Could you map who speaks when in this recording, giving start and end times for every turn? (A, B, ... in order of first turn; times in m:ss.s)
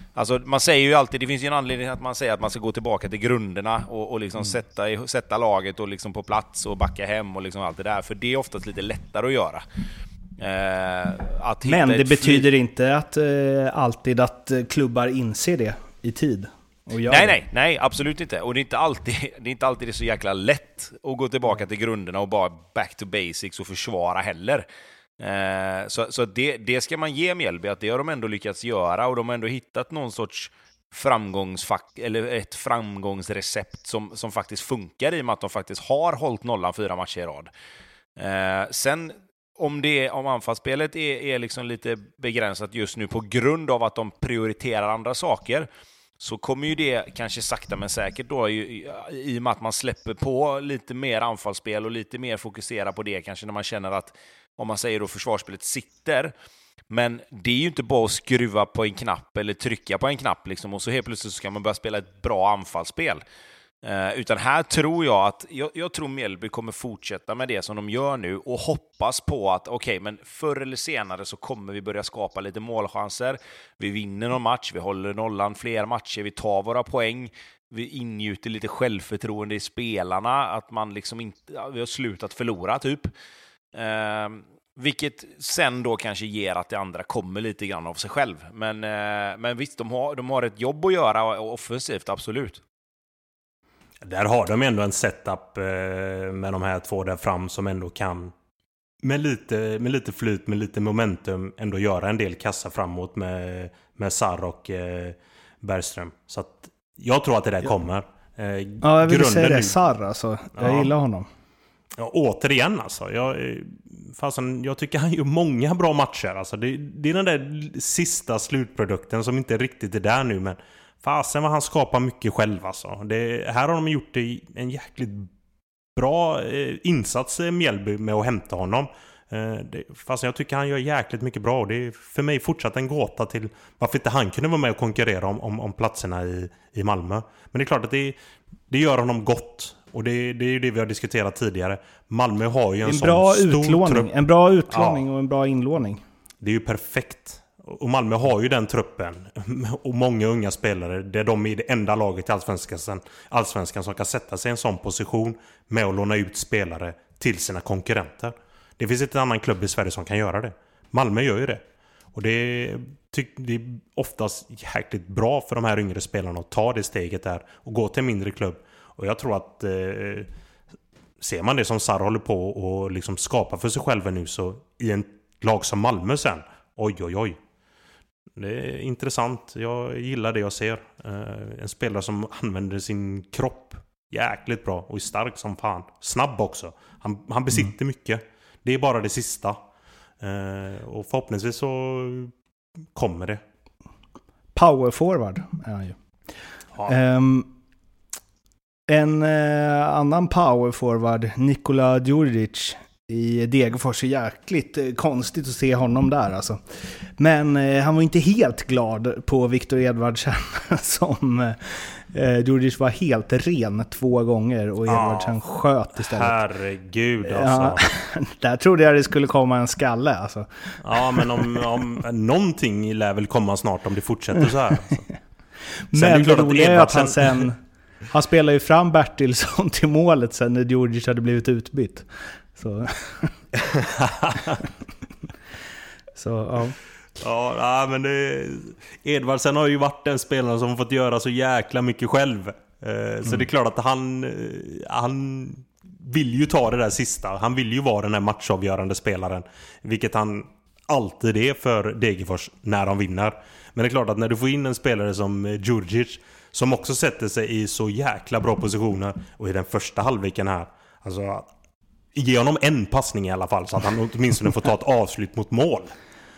0:00.1-0:09.6 A
0:10.4-0:12.5 A
0:11.6-0:17.4 B
0:17.1-0:24.6 A
0:25.2-0:37.5 A
0:38.2-0:45.7 A
0:46.2-0:56.3 A
0:56.9-1:03.2 A
1:03.8-1:23.1 A
1:23.7-1:32.6 A
1:34.0-1:38.3 C
1:39.0-1:49.8 C
1:48.8-1:51.3 B
1:50.6-1:50.9 C
1:52.0-2:05.3 C
2:06.0-2:18.2 C
2:18.7-2:24.1 C
2:22.8-2:26.0 B
2:24.7-2:25.0 C
2:26.4-2:41.6 C
2:42.1-2:50.3 C
2:51.2-2:57.4 C
2:58.4-3:09.6 C
3:10.2-3:12.3 C
3:13.0-3:13.4 C
3:14.6-3:16.0 B
3:16.9-3:17.5 B
3:18.9-3:36.4 B
3:34.9-3:35.4 C
3:36.0-3:37.8 C
3:37.3-3:41.5 B
3:40.8-3:45.0 C
3:45.9-3:47.6 B
3:45.9-3:47.4 C
3:48.1-3:53.4 B
3:53.7-3:54.6 C
3:56.2-3:56.8 B
3:57.2-4:21.5 C
4:22.1-4:25.9 C